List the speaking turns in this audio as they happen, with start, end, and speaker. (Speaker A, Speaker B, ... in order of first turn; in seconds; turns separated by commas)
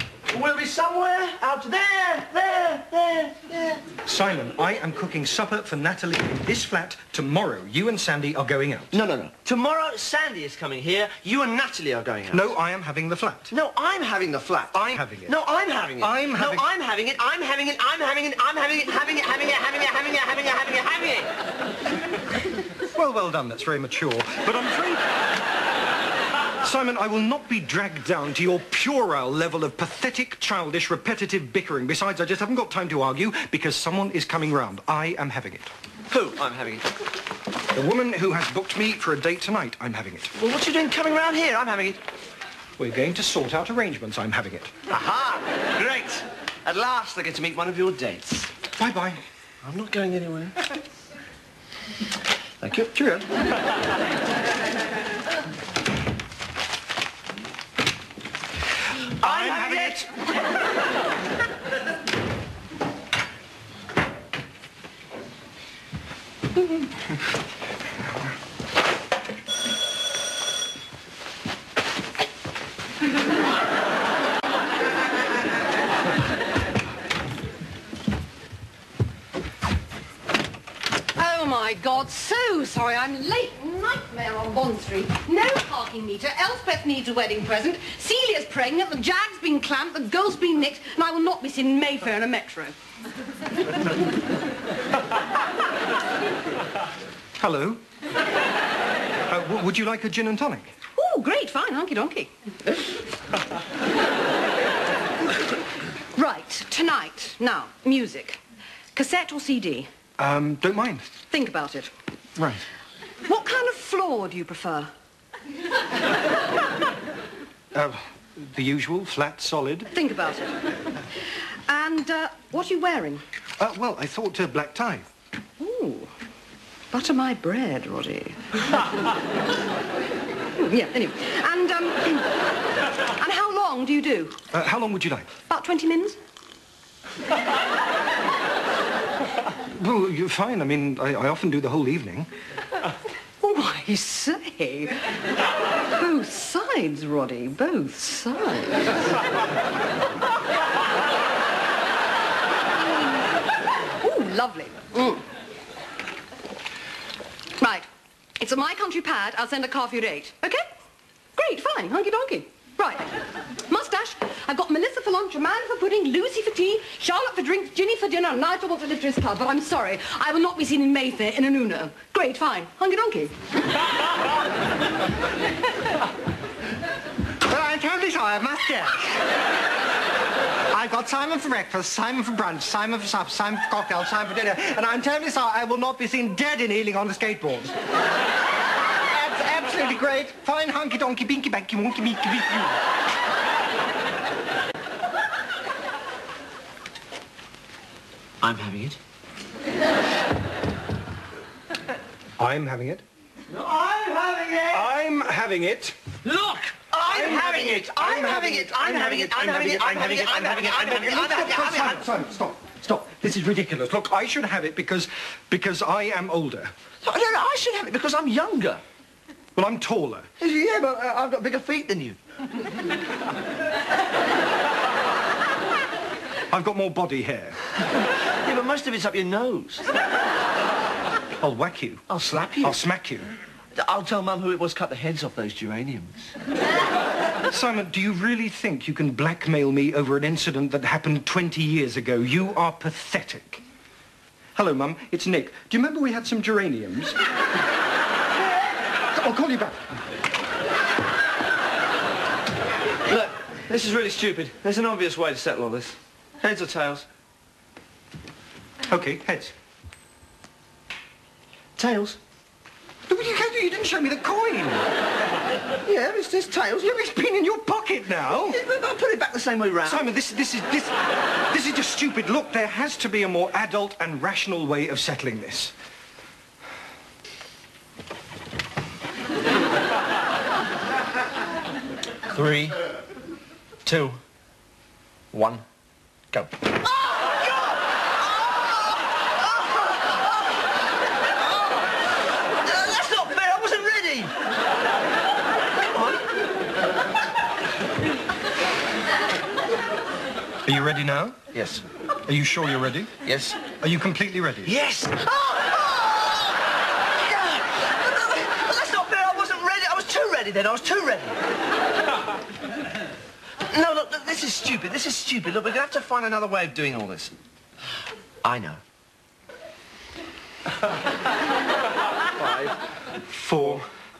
Speaker A: 0.3-3.9, Speaker B: 4.0-9.0, Speaker A: 8.9-12.5, Speaker B: 12.3-13.5, Speaker A: 13.5-21.3, Speaker B: 14.7-15.3, Speaker B: 16.0-16.6, Speaker B: 22.9-25.1, Speaker B: 26.6-35.7, Speaker A: 36.1-36.9, Speaker B: 37.7-40.3, Speaker A: 40.4-42.0, Speaker B: 42.8-44.7, Speaker A: 44.9-48.5, Speaker B: 48.8-49.2, Speaker A: 49.6-50.6, Speaker A: 52.6-53.1, Speaker B: 52.9-53.2, Speaker B: 59.2-60.1, Speaker A: 59.2-60.1, Speaker C: 81.2-92.8, Speaker B: 97.4-97.8, Speaker B: 99.3-100.7, Speaker C: 101.0-102.3, Speaker C: 106.2-108.4, Speaker C: 108.9-109.9, Speaker B: 110.2-111.1, Speaker C: 111.3-111.9, Speaker B: 112.4-112.6, Speaker C: 113.2-114.9, Speaker B: 117.7-119.9, Speaker C: 119.9-120.6, Speaker C: 121.6-123.2, Speaker B: 123.6-125.1, Speaker C: 125.6-126.1, Speaker C: 126.9-128.8, Speaker C: 130.6-132.4, Speaker C: 133.2-134.4, Speaker B: 134.5-135.3, Speaker C: 135.5-136.2, Speaker B: 139.7-142.3, Speaker C: 143.4-145.2, Speaker C: 145.9-149.0, Speaker C: 154.0-155.3, Speaker C: 157.6-157.9, Speaker C: 158.4-160.7, Speaker C: 161.3-173.6, Speaker B: 177.4-179.3, Speaker B: 180.7-187.7, Speaker B: 189.1-192.8, Speaker A: 198.4-199.0, Speaker B: 202.4-203.0, Speaker A: 203.5-204.9, Speaker B: 204.7-206.0, Speaker A: 206.2-212.1, Speaker B: 207.0-216.7, Speaker A: 217.0-218.8, Speaker B: 219.6-220.3, Speaker A: 220.4-222.2, Speaker B: 226.5-227.6, Speaker A: 228.4-229.9, Speaker B: 231.4-232.1, Speaker A: 232.1-232.8, Speaker B: 232.6-233.3, Speaker A: 233.8-236.3, Speaker B: 237.5-243.6, Speaker B: 244.6-247.2, Speaker B: 249.1-249.9, Speaker A: 253.1-257.1, Speaker B: 258.9-259.6, Speaker A: 261.8-262.2, Speaker B: 263.1-264.9, Speaker A: 265.8-267.1, Speaker B: 266.8-268.6, Speaker A: 268.3-270.1, Speaker B: 269.9-270.9, Speaker B: 271.5-275.7, Speaker A: 282.3-282.8, Speaker A: 283.9-284.2, Speaker A: 285.3-285.6, Speaker A: 286.3-290.2, Speaker A: 292.6-294.4, Speaker A: 295.9-296.3, Speaker B: 300.6-301.4, Speaker A: 301.5-301.8, Speaker B: 302.2-303.2, Speaker A: 303.2-303.6, Speaker B: 303.8-304.8, Speaker A: 304.6-306.6, Speaker A: 307.2-311.4, Speaker A: 313.7-317.4, Speaker A: 318.4-318.8, Speaker A: 322.3-322.8, Speaker B: 323.2-323.9